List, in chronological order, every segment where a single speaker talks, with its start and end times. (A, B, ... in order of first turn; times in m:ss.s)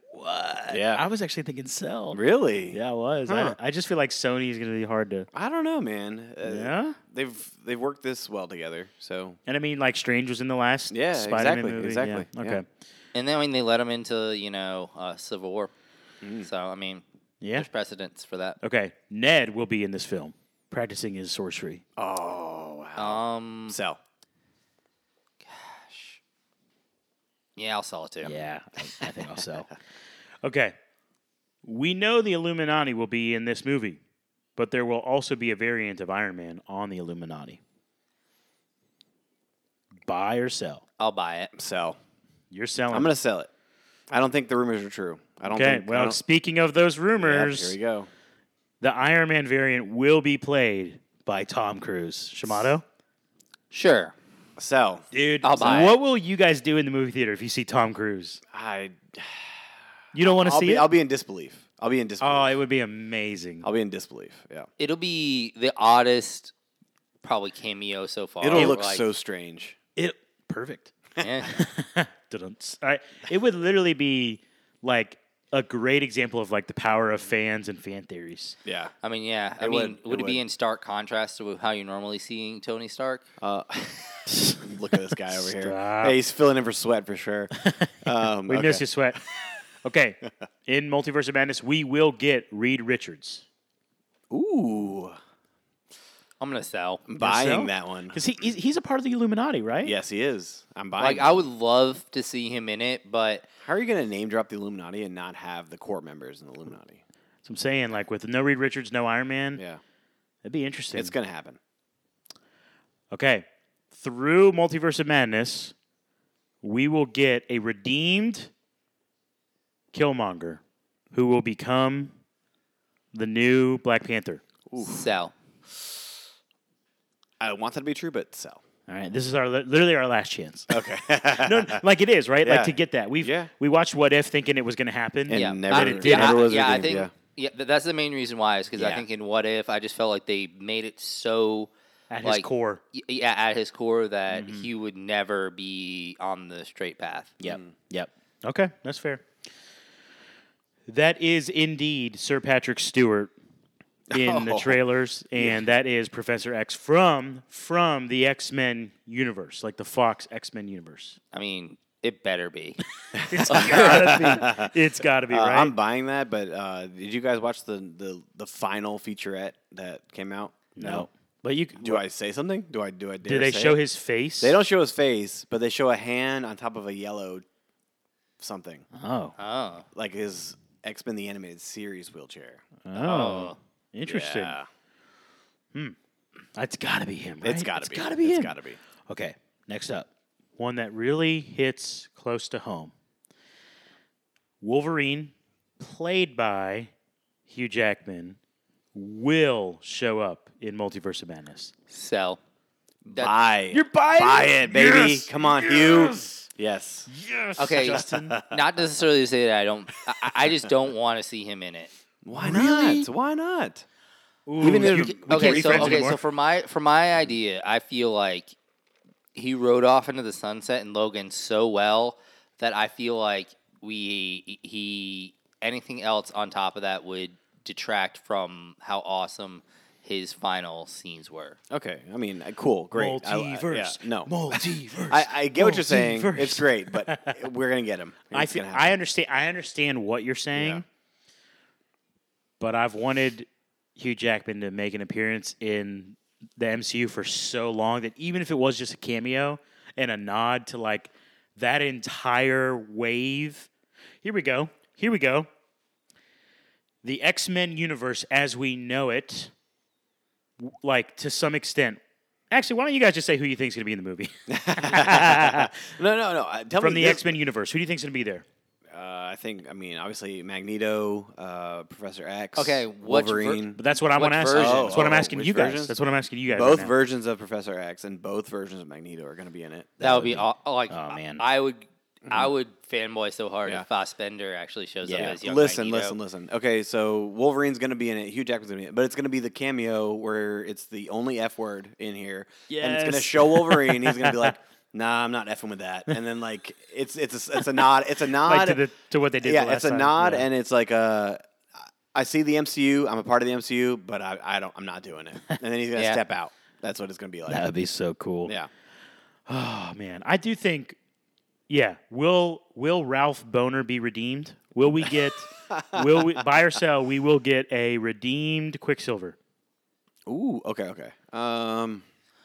0:00.1-0:05.3 A
0:00.7-0:01.0 B
0:02.1-0:03.6 B
0:05.3-0:09.4 B
0:06.4-0:07.0 A
0:09.5-0:12.7 A
0:10.9-0:12.6 B
0:13.1-0:15.7 C
0:16.2-0:16.5 B
0:16.4-0:18.6 C
0:17.4-0:17.7 A
0:18.6-0:21.8 A
0:22.0-0:24.0 B
0:23.0-0:23.8 C
0:25.5-0:26.2 C
0:27.6-0:28.3 C
0:28.2-0:29.7 A
0:30.4-0:30.8 A
0:31.6-0:34.0 A
0:34.6-0:37.6 A
0:40.0-0:40.8 A
0:41.0-0:41.5 C
0:41.6-0:42.0 B
0:42.5-0:43.2 A
0:42.9-0:43.5 B
0:44.1-0:46.2 B
0:45.5-0:47.8 A
0:47.2-0:48.1 B
0:48.8-0:52.8 A
0:53.7-0:54.1 C
0:54.6-0:55.9 B
0:55.1-0:58.4 A
0:55.4-0:56.0 C
0:58.5-0:59.7 B
1:00.1-1:00.9 A
1:00.2-1:02.6 B
1:02.2-1:03.7 A
1:03.6-1:04.7 B
1:04.8-1:06.5 C
1:07.2-1:09.1 C
1:08.4-1:09.8 B
1:08.5-1:08.8 A
1:10.0-1:18.6 A
1:11.2-1:11.6 C
1:18.6-1:18.9 B
1:19.0-1:23.2 C
1:19.6-1:20.4 B
1:23.4-1:27.5 B
1:24.3-1:26.2 A
1:27.6-1:33.4 A
1:28.0-1:28.8 B
1:34.3-1:35.2 B
1:36.4-1:37.0 C
1:37.1-1:38.2 B
1:37.2-1:40.0 A
1:39.8-1:41.5 B
1:41.0-1:43.5 C
1:43.6-1:47.0 B
1:47.4-1:49.6 A
1:49.6-1:49.8 B
1:50.4-1:51.2 A
1:51.0-1:51.6 B
1:53.1-1:55.8 A
1:56.6-1:58.5 A
1:59.9-2:02.2 A
2:03.1-2:04.4 A
2:04.7-2:05.1 B
2:04.8-2:05.3 C
2:07.4-2:08.6 B
2:08.9-2:16.9 A
2:10.7-2:11.8 B
2:12.4-2:13.5 B
2:15.3-2:17.1 B
2:15.3-2:21.7 C
2:18.8-2:19.0 B
2:22.1-2:22.8 A
2:22.2-2:27.4 C
2:24.3-2:24.7 A
2:27.4-2:27.7 B
2:27.4-2:29.2 A
2:30.9-2:33.3 A
2:34.1-2:34.8 B
2:34.1-2:41.2 A
2:35.4-2:35.6 B
2:41.3-2:42.8 C
2:43.2-2:44.7 B
2:43.2-2:45.8 A
2:43.5-2:44.4 C
2:45.3-2:51.1 B
2:50.8-2:52.0 A
2:51.8-2:53.8 B
2:53.2-2:54.6 A
2:54.4-2:57.4 B
2:58.4-2:58.9 B
2:58.9-2:59.4 A
2:59.4-2:59.9 C
2:59.9-3:02.6 B
3:02.8-3:04.6 A
3:02.9-3:03.6 C
3:04.1-3:04.7 B
3:06.6-3:12.9 A
3:07.4-3:08.8 B
3:14.6-3:16.9 A
3:17.5-3:18.4 A
3:18.9-3:21.7 A
3:21.9-3:22.4 C
3:23.0-3:27.1 B
3:23.7-3:26.5 A
3:27.1-3:28.4 A
3:27.6-3:31.9 C
3:27.8-3:28.6 B
3:32.2-3:33.9 B
3:32.3-3:33.1 A
3:34.5-3:36.2 A
3:34.6-3:36.0 B
3:34.7-3:38.5 C
3:39.4-3:51.6 C
3:51.7-3:59.0 B
3:52.9-3:57.5 A
3:58.3-4:00.8 A
4:00.5-4:00.8 B
4:02.6-4:13.7 A
4:14.2-4:15.5 A
4:17.0-4:19.5 A
4:20.6-4:22.0 A
4:22.5-4:25.8 A
4:24.5-4:27.4 B
4:26.8-4:28.4 A
4:28.9-4:33.8 B
4:32.6-4:35.2 C
4:33.4-4:37.0 A
4:34.5-4:36.0 B
4:36.5-4:40.0 B
4:40.0-4:41.4 A
4:40.0-4:46.2 C
4:42.2-4:42.5 B
4:45.0-4:45.4 A
4:45.1-4:58.8 B
4:52.7-4:54.6 A
4:57.6-5:00.5 A
4:59.4-5:01.4 B
5:02.1-5:07.7 B
5:06.0-5:06.2 C
5:07.5-5:08.6 A
5:08.4-5:08.7 B
5:09.5-5:11.0 A
5:11.7-5:19.4 A
5:15.8-5:16.5 B
5:20.3-5:22.0 B